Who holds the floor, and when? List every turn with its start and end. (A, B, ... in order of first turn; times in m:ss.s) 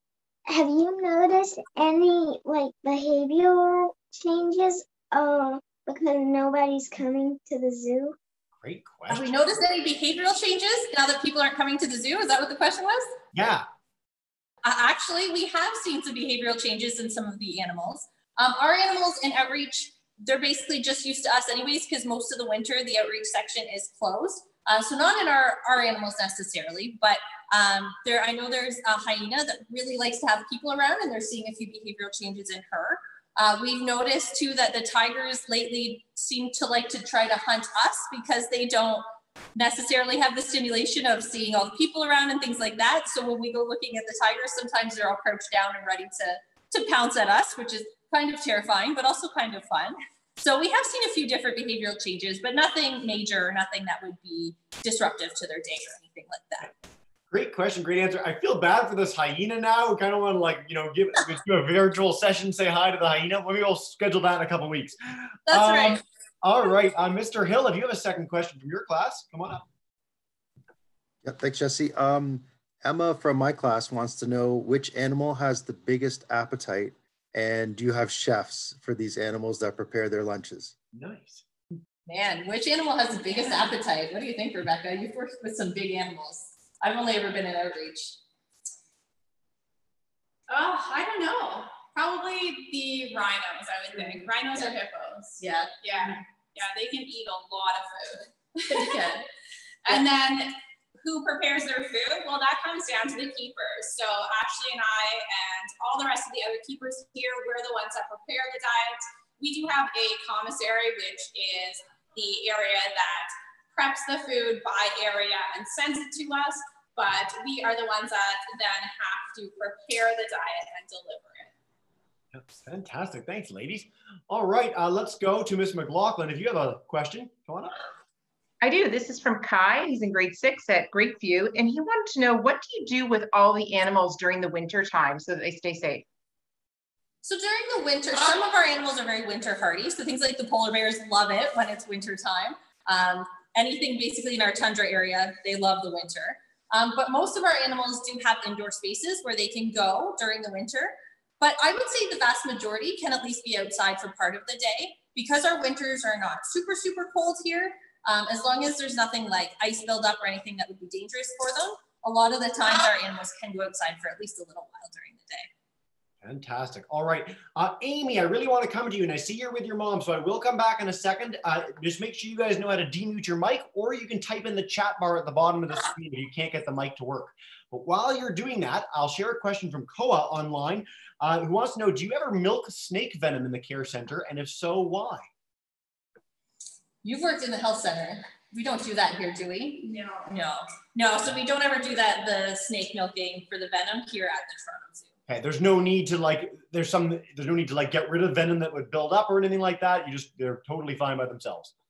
0:00.5-0:08.2 A
0:08.6-0:09.3 B
0:09.1-0:13.2 C
0:13.3-0:13.7 B
0:14.6-0:56.7 C
0:57.3-1:09.6 B
1:05.5-1:06.0 C
1:11.2-1:20.8 D
1:20.9-1:21.4 B
1:22.1-1:28.2 C
1:30.5-1:39.2 E
1:33.9-1:34.7 C
1:35.4-1:36.1 C
1:38.7-1:39.3 C
1:39.8-2:01.5 E
2:02.3-2:07.8 B
2:08.6-2:16.1 F
2:17.2-2:45.5 C
2:46.2-3:05.3 B
3:07.0-3:15.1 C
3:09.8-3:10.3 E
3:15.3-3:21.7 B